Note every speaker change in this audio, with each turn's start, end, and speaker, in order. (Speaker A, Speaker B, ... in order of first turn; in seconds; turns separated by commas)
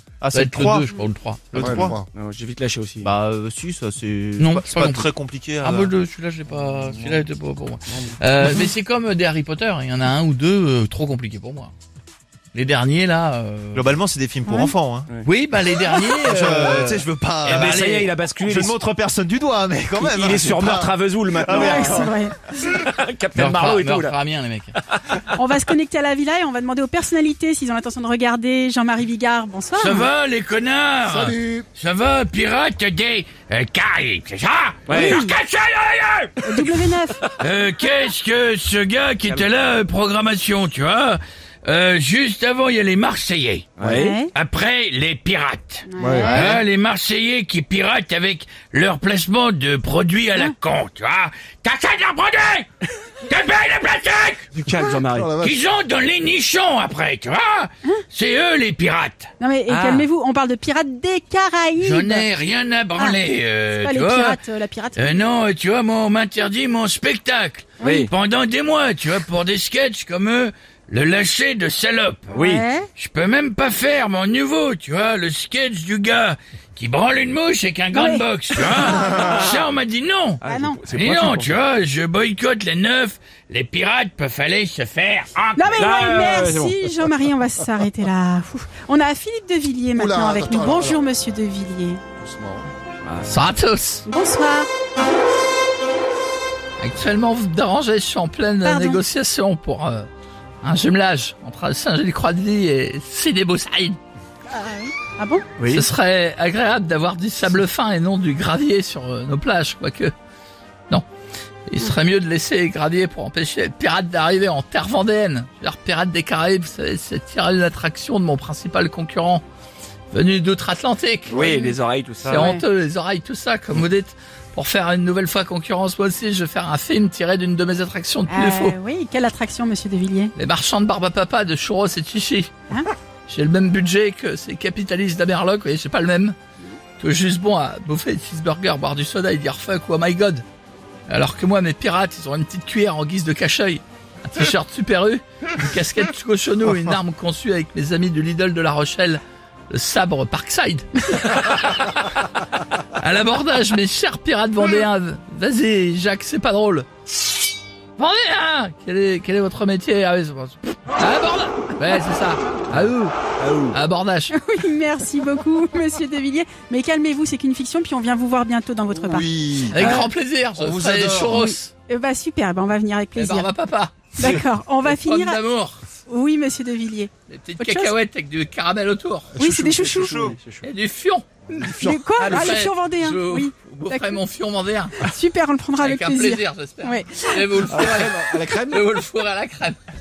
Speaker A: 0.2-1.0, Speaker B: 0.3-1.9, Speaker A: 1.5-2.0, Speaker C: 1.5-2.0, Speaker D: 1.8-3.1, Speaker A: 3.0-5.9, Speaker B: 4.4-11.7, Speaker B: 12.5-14.0, Speaker A: 13.7-15.2, Speaker E: 14.4-14.7, Speaker B: 15.2-18.1, Speaker A: 16.1-22.1, Speaker D: 17.4-18.8, Speaker D: 20.0-22.1, Speaker E: 21.5-22.7, Speaker D: 22.6-24.1, Speaker B: 23.3-24.7, Speaker D: 24.8-25.3, Speaker E: 25.3-30.1, Speaker B: 29.8-36.7, Speaker C: 31.0-31.7, Speaker D: 34.9-35.2, Speaker E: 34.9-35.4, Speaker E: 36.4-37.2, Speaker B: 37.4-52.7, Speaker D: 43.8-44.1, Speaker E: 43.8-44.3, Speaker E: 45.9-46.6, Speaker C: 46.0-46.6, Speaker B: 53.2-54.5, Speaker D: 54.5-55.3, Speaker C: 54.6-55.6, Speaker B: 55.4-59.3, Speaker E: 59.4-62.3, Speaker D: 59.7-60.1, Speaker B: 61.8-64.4, Speaker E: 63.7-65.2, Speaker B: 64.9-72.4, Speaker D: 67.8-68.1, Speaker D: 72.3-72.6, Speaker E: 72.4-72.9, Speaker B: 72.9-85.8, Speaker E: 77.9-78.2, Speaker D: 78.7-79.6, Speaker E: 78.8-79.3, Speaker D: 80.4-81.6, Speaker E: 80.5-80.8, Speaker E: 85.5-92.0, Speaker D: 85.7-87.1, Speaker C: 89.9-91.0, Speaker C: 92.2-92.7, Speaker D: 93.0-93.3, Speaker B: 93.2-94.1, Speaker E: 94.0-94.7, Speaker B: 96.8-100.1, Speaker E: 98.6-99.0, Speaker B: 100.6-104.0, Speaker E: 104.5-105.5, Speaker B: 105.6-110.1, Speaker B: 111.7-119.4, Speaker B: 120.1-121.4, Speaker D: 121.3-122.4, Speaker E: 121.3-121.7, Speaker B: 122.2-128.8, Speaker E: 122.3-122.6, Speaker E: 128.3-130.3, Speaker B: 130.3-132.5, Speaker B: 133.3-136.3, Speaker B: 137.0-140.4, Speaker B: 141.1-152.2, Speaker B: 153.0-156.8, Speaker B: 158.0-163.1, Speaker D: 163.4-163.8, Speaker B: 163.7-164.3, Speaker E: 164.3-170.1, Speaker A: 169.0-169.9, Speaker B: 169.7-171.7, Speaker D: 169.8-170.1, Speaker A: 170.6-171.4, Speaker E: 171.3-173.5, Speaker B: 173.2-175.8, Speaker E: 174.1-175.4, Speaker E: 176.1-177.9, Speaker B: 177.3-179.3, Speaker A: 179.3-180.4, Speaker E: 179.4-180.4, Speaker D: 179.8-180.6, Speaker B: 180.6-181.3, Speaker A: 181.5-182.1, Speaker E: 181.6-184.2, Speaker B: 182.2-185.0, Speaker E: 185.0-187.6, Speaker B: 185.8-189.8, Speaker A: 187.7-188.7, Speaker D: 187.9-188.8